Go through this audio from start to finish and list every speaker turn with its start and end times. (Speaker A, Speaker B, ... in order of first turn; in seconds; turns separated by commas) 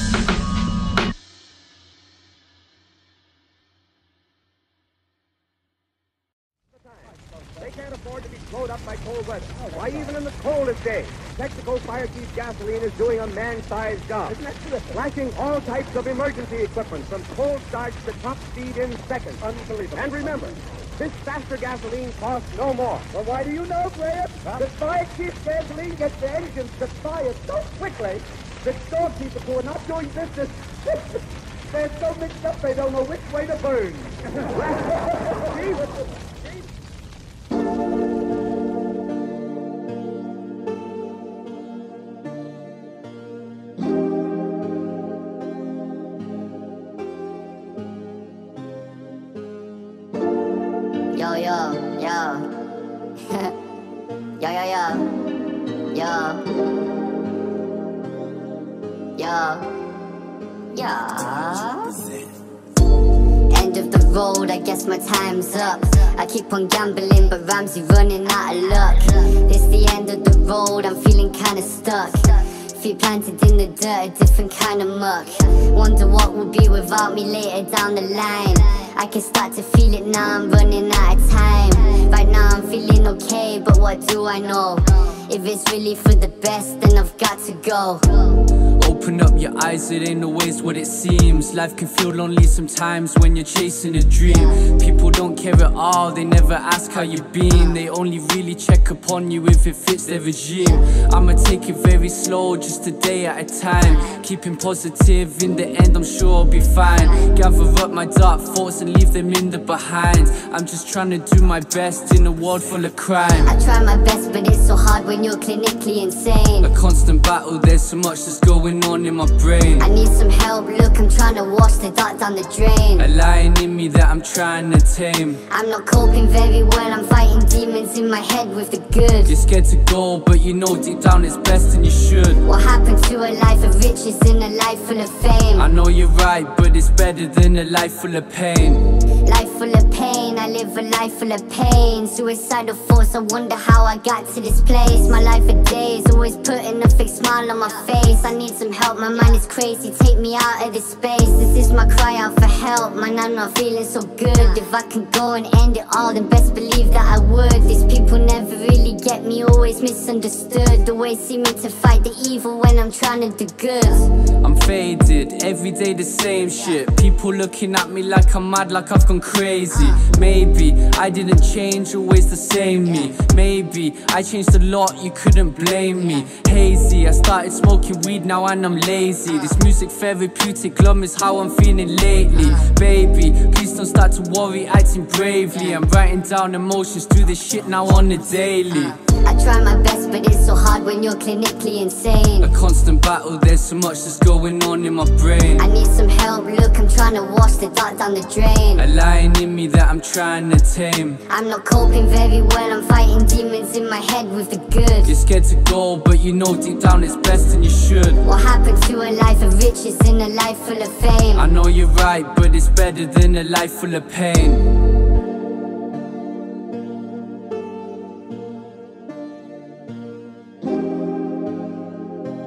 Speaker A: 7.6-31.2, Speaker A: 31.7-35.9, Speaker B: 51.1-52.5, Speaker B: 53.3-53.5, Speaker B: 54.4-55.1, Speaker B: 55.9-56.5, Speaker B: 59.1-59.7, Speaker B: 60.7-62.0, Speaker B: 63.5-88.3, Speaker C: 88.8-113.5, Speaker B: 106.9-107.3, Speaker B: 113.4-116.7, Speaker C: 116.6-119.8, Speaker B: 119.8-123.1, Speaker C: 123.0-125.4, Speaker B: 125.5-129.3, Speaker C: 129.2-132.4, Speaker B: 132.4-135.7, Speaker C: 135.6-138.8, Speaker B: 139.2-164.1, Speaker C: 164.4-188.9, Speaker B: 169.7-170.1, Speaker B: 182.3-182.7, Speaker B: 185.5-185.8, Speaker B: 188.7-192.5, Speaker C: 192.4-195.7, Speaker B: 195.6-198.9, Speaker C: 198.8-201.2, Speaker B: 201.3-205.1, Speaker C: 205.0-208.2, Speaker B: 208.2-211.5, Speaker C: 211.3-214.7